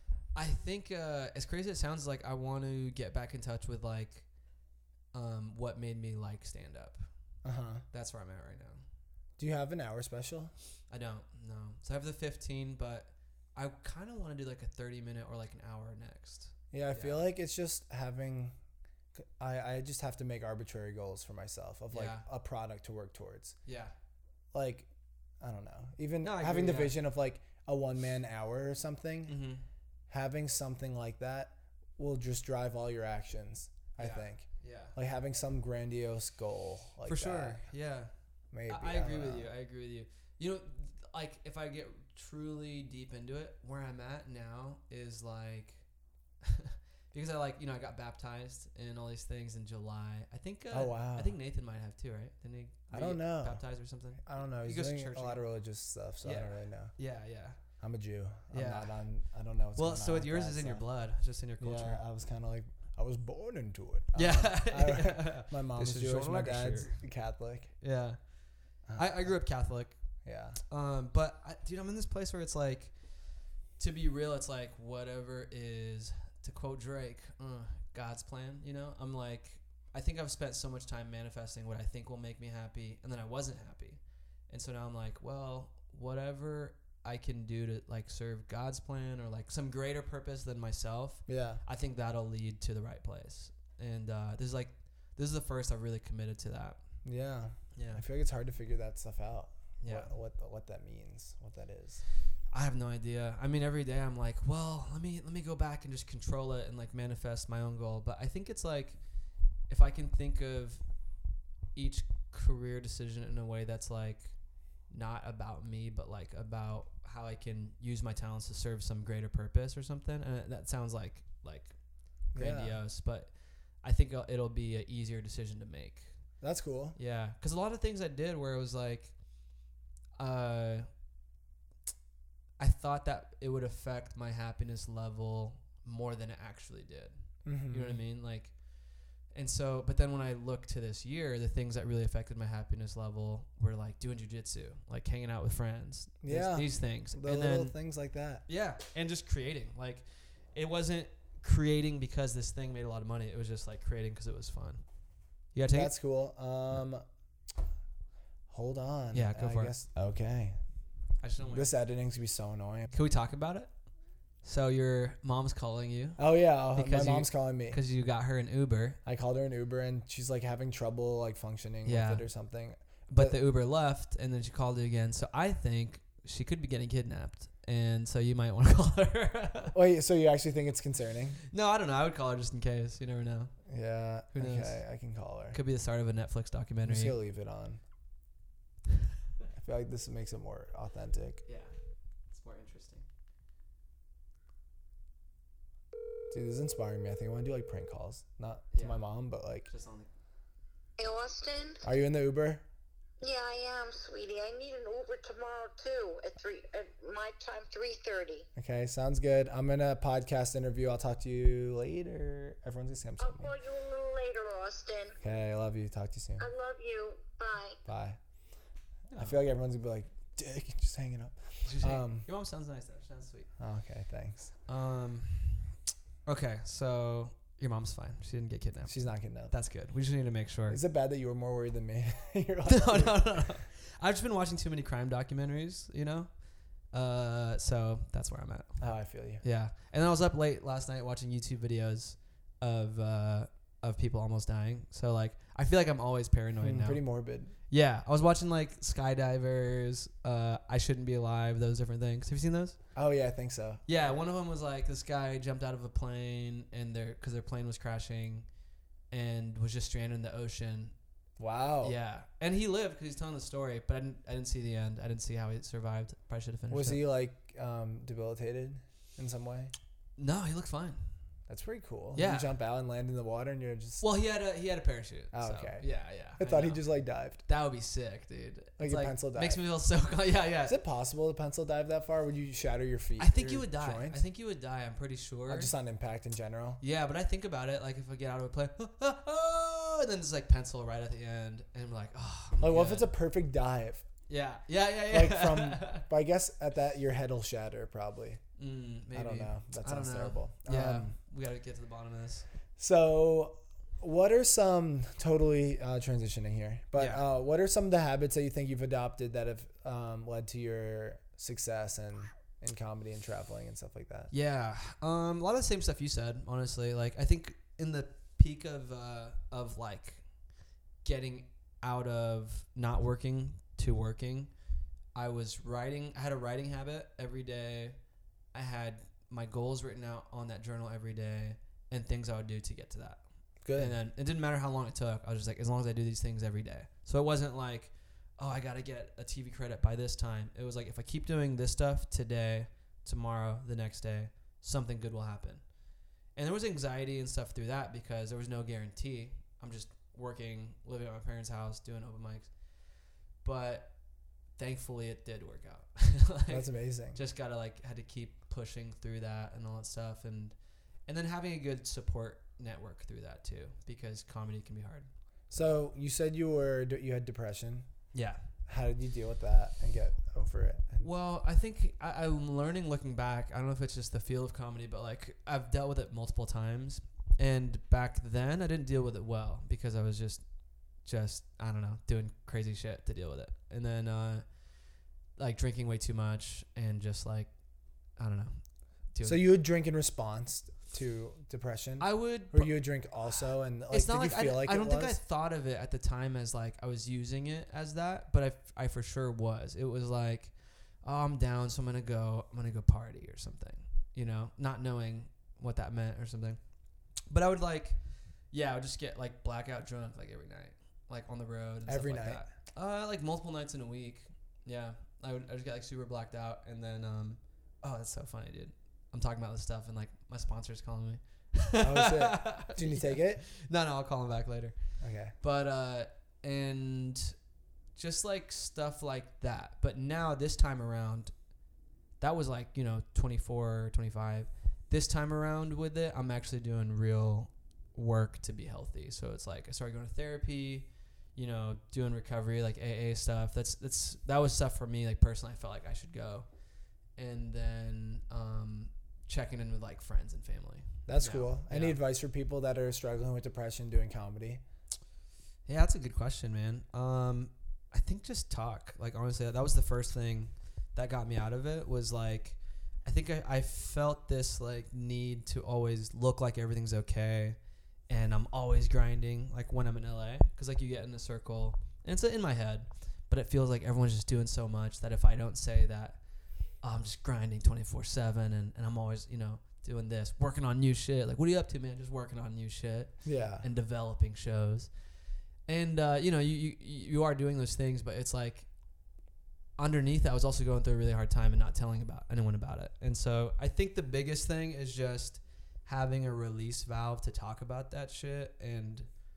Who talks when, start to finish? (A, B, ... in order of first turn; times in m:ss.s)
0:00.3-0:04.3 A
0:05.1-0:07.1 A
0:07.4-0:07.8 B
0:07.9-0:08.8 A
0:09.4-0:10.5 B
0:10.9-0:17.2 A
0:16.7-0:18.6 B
0:19.1-0:23.6 B
0:21.9-0:22.2 A
0:23.6-0:23.9 A
0:24.5-0:24.9 B
0:25.4-0:29.4 B
0:26.2-0:27.0 A
0:29.3-0:29.6 A
0:30.1-0:37.6 B
0:34.0-0:34.9 A
0:37.0-0:38.1 A
0:38.5-0:39.5 B
0:38.7-0:45.8 A
0:46.4-0:55.4 A
0:50.7-0:51.3 B
0:52.9-0:53.6 B
0:54.2-0:56.9 B
0:56.2-0:57.6 A
0:57.8-1:00.8 B
0:58.5-0:58.9 A
0:59.8-1:02.0 A
1:01.6-1:07.7 B
1:04.1-1:07.0 A
1:07.8-1:08.2 A
1:08.9-1:09.3 B
1:09.0-1:10.0 A
1:10.2-1:10.6 B
1:10.7-1:13.0 A
1:13.8-1:36.8 A
1:31.3-1:31.6 B
1:37.0-1:42.0 B
1:37.7-1:38.0 A
1:39.8-1:40.1 A
1:42.5-1:49.0 A
1:49.7-1:50.8 A
1:51.7-1:54.3 A
1:54.9-2:01.7 A
2:02.3-2:02.8 B
2:02.3-2:06.1 A
2:06.4-2:07.0 B
2:07.0-2:09.1 A
2:10.2-2:10.9 A
2:12.6-2:17.1 A
2:17.4-2:18.0 B
2:17.7-2:18.6 A
2:19.3-2:27.7 A
2:26.2-2:28.4 B
2:28.5-2:34.8 A
2:35.5-2:35.9 A
2:35.7-2:37.0 B
2:38.5-2:40.6 B
2:39.1-2:39.7 A
2:41.2-2:41.8 A
2:41.4-2:42.9 B
2:42.9-2:43.7 A
2:44.4-2:46.2 A
2:46.2-2:47.8 B
2:46.7-2:49.0 A
2:49.0-2:53.4 B
2:51.8-2:52.2 A
2:53.1-2:59.7 A
2:59.7-3:01.4 B
3:01.5-3:03.5 A
3:03.7-3:05.6 B
3:04.3-3:04.8 A
3:05.5-3:07.2 A
3:06.8-3:07.8 B
3:09.6-3:11.4 B
3:11.4-3:11.7 A
3:12.3-3:13.0 A
3:16.3-3:19.7 B
3:18.7-3:19.0 A
3:19.7-3:20.1 A
3:21.0-3:21.8 C
3:21.8-3:22.6 B
3:23.2-3:28.5 C
3:28.6-3:33.5 B
3:33.2-3:35.2 C
3:35.2-3:36.4 B
3:36.4-3:37.8 C
3:37.9-3:38.2 B
3:39.1-3:39.4 A
3:39.2-3:42.2 B
3:41.6-3:43.5 A
3:43.6-3:44.5 B
3:44.7-3:45.7 A
3:46.2-3:50.8 A
3:48.8-3:49.5 B
3:50.7-3:53.6 B
3:52.6-3:56.3 A
3:56.9-3:58.8 A
3:58.8-3:59.4 B
3:59.4-4:07.0 A
4:06.6-4:07.5 B
4:07.7-4:12.8 A
4:12.9-4:13.8 B
4:13.9-4:18.5 A
4:19.1-4:20.9 A
4:21.4-4:22.0 B
4:21.8-4:27.0 A
4:26.7-4:29.7 B
4:30.2-4:31.0 A
4:31.5-4:34.0 B
4:32.1-4:32.5 A
4:34.0-4:36.8 A
4:35.3-4:35.8 B
4:36.4-4:37.4 B
4:37.4-4:40.8 A
4:38.8-4:39.6 B
4:40.6-4:44.2 B
4:43.2-4:45.7 A
4:45.5-4:46.8 B
4:46.8-4:53.1 A
4:52.6-4:54.0 B
4:54.3-4:56.1 A
4:55.1-4:58.4 B
4:58.6-5:02.5 A
4:59.1-5:01.1 B
5:02.8-5:14.3 B
5:07.0-5:07.2 A
5:14.3-5:20.2 A
5:21.0-5:24.5 A
5:25.1-5:28.0 A
5:28.5-5:33.2 A
5:33.6-5:33.9 B
5:33.7-5:45.6 A
5:46.4-5:52.5 A
5:53.4-5:53.9 A
5:54.6-6:00.5 A
5:56.5-5:57.2 B
6:01.1-6:05.7 A
6:05.5-6:07.9 B
6:08.1-6:08.4 A
6:08.7-6:11.1 B
6:11.0-6:20.4 A
6:21.0-6:24.5 A
6:25.4-6:27.5 A
6:28.2-6:28.6 A
6:29.1-6:29.4 A
6:29.2-6:35.2 B
6:32.0-6:32.8 A
6:33.3-6:46.6 A
6:47.3-6:48.0 A
6:48.5-7:04.8 A
6:51.9-6:52.4 B
7:01.8-7:03.4 B
7:05.0-7:05.3 B
7:05.4-7:07.3 A
7:07.9-7:11.3 A
7:12.2-7:26.5 A
7:27.2-7:32.0 A
7:31.0-7:34.6 B
7:35.6-7:47.6 A
7:48.1-7:56.2 A
7:56.8-8:04.9 A
8:03.2-8:03.6 B
8:05.7-8:08.7 A
8:09.8-8:19.1 A